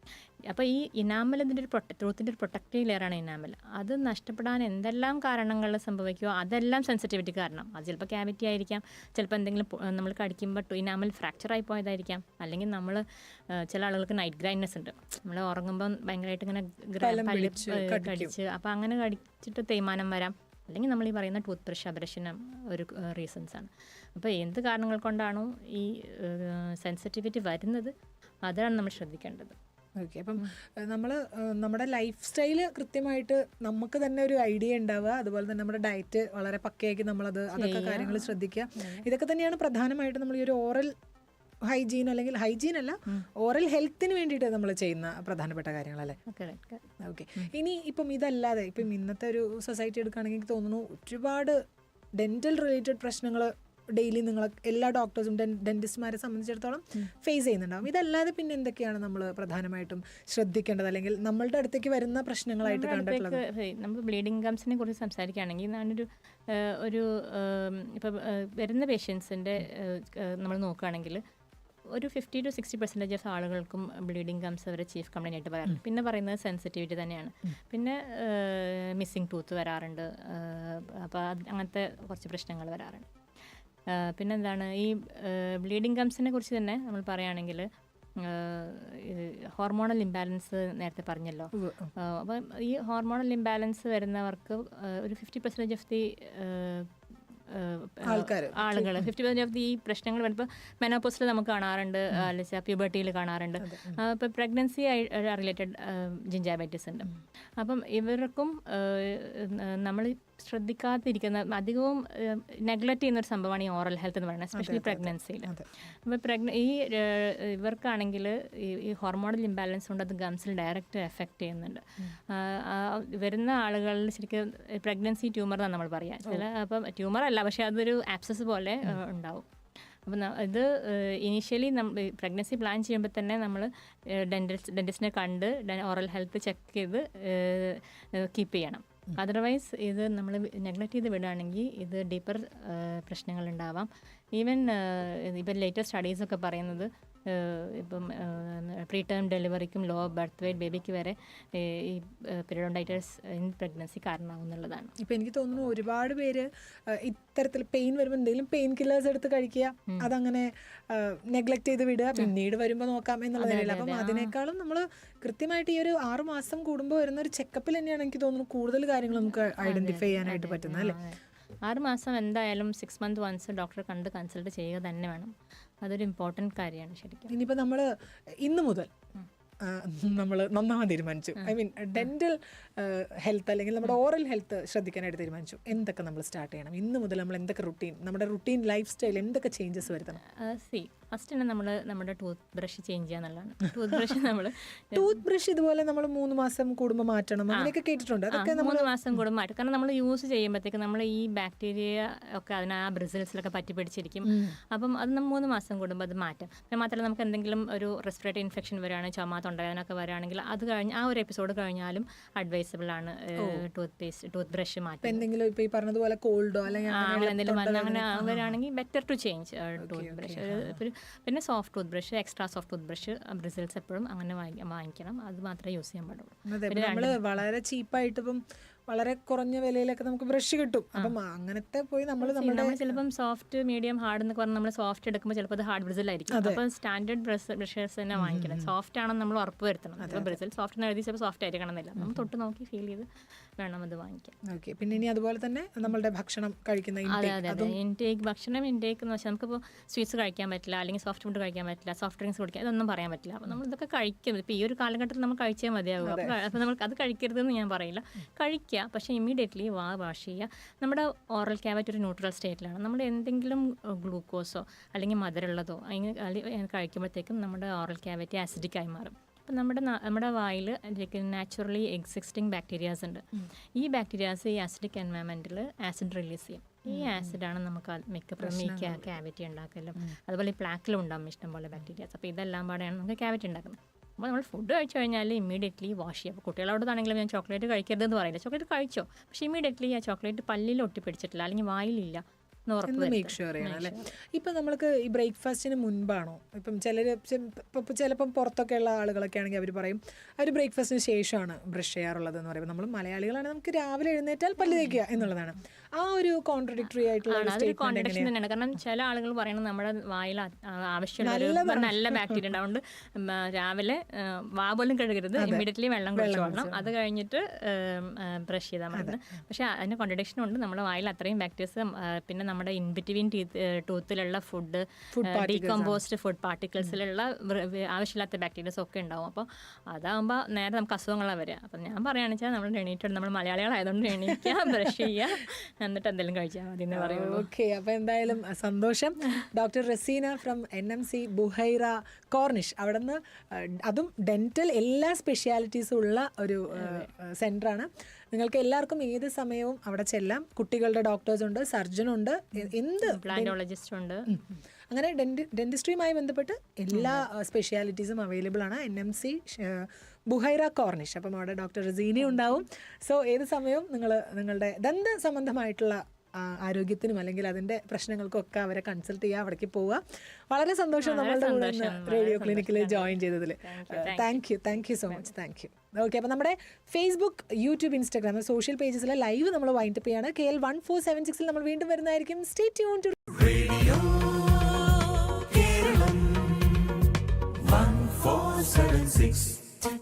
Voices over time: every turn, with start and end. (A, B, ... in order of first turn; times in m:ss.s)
0:00.5-0:27.9 A
0:17.0-0:18.3 B
0:28.4-0:29.5 A
0:30.0-0:40.9 B
0:37.5-0:39.0 A
0:41.7-0:46.2 B
0:46.3-0:46.8 A
0:47.0-0:51.6 B
0:52.2-1:03.4 B
1:02.6-1:11.2 A
1:11.9-1:23.0 A
1:23.9-1:27.7 A
1:28.2-1:36.9 A
1:31.6-1:31.9 B
1:37.5-1:55.5 A
1:38.0-1:39.1 B
1:43.6-1:44.0 B
1:54.5-1:55.7 B
1:56.0-2:09.4 A
2:10.0-2:34.9 A
2:35.0-2:51.0 B
2:43.4-2:44.3 A
2:49.6-2:55.3 A
2:55.8-2:57.3 A
2:57.3-2:57.9 B
2:58.4-2:58.9 B
2:59.6-3:10.2 B
3:01.4-3:02.0 A
3:10.3-3:15.2 A
3:14.9-3:18.9 B
3:18.3-3:35.2 A
3:24.2-3:24.6 B
3:33.4-3:33.6 B
3:35.0-3:38.5 B
3:36.9-3:47.2 A
3:39.8-3:40.8 B
3:46.5-3:52.8 B
3:52.2-4:03.1 A
3:56.3-3:56.6 B
3:58.2-3:58.7 B
4:00.0-4:00.3 B
4:02.0-4:02.2 B
4:03.6-4:04.3 A
4:04.4-4:07.8 B
4:07.1-4:54.1 A
4:16.0-4:16.3 B
4:36.9-4:37.3 B
4:38.4-4:39.0 B
4:52.9-5:08.3 B
5:04.6-5:05.0 A
5:07.3-5:37.5 A
5:11.2-5:12.4 B
5:15.4-5:15.6 B
5:16.2-5:16.8 B
5:25.1-5:26.0 B
5:36.9-5:53.5 B
5:46.8-5:47.1 A
5:53.0-5:54.3 A
5:54.3-6:24.1 B
5:56.9-5:57.2 A
6:02.2-6:02.6 A
6:11.0-6:15.3 A